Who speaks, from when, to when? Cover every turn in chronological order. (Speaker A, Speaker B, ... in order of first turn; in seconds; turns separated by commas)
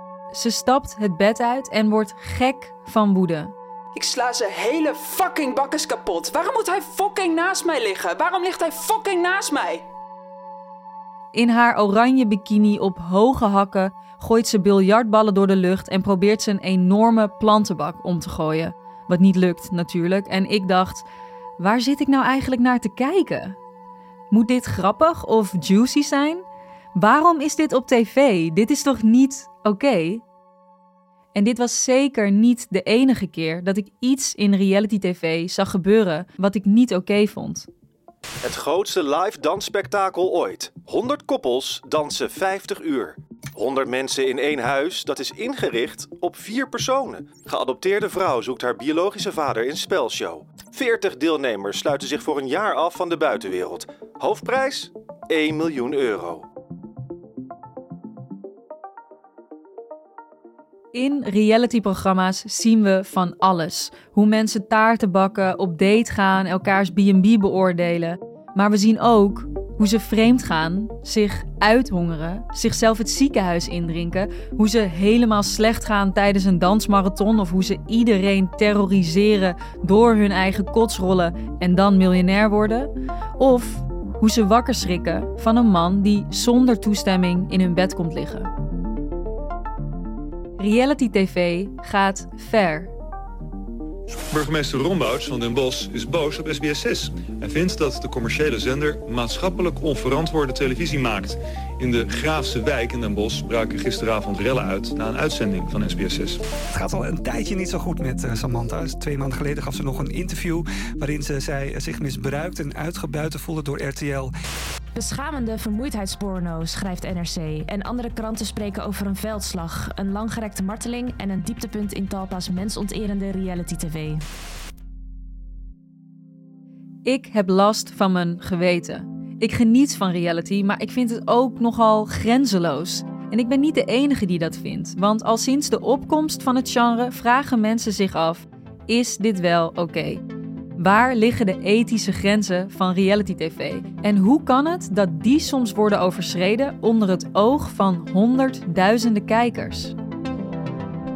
Speaker A: 0.3-3.5, Speaker B: 3.9-9.8, Speaker A: 11.3-21.0, Speaker A: 21.6-23.6, Speaker A: 24.3-26.4, Speaker A: 26.9-30.2, Speaker A: 31.3-37.7, Speaker C: 38.4-56.4, Speaker A: 60.9-88.5, Speaker A: 90.6-92.9, Speaker D: 94.3-106.4, Speaker E: 106.7-114.3, Speaker F: 114.9-124.2, Speaker A: 127.0-140.2, Speaker A: 140.8-149.9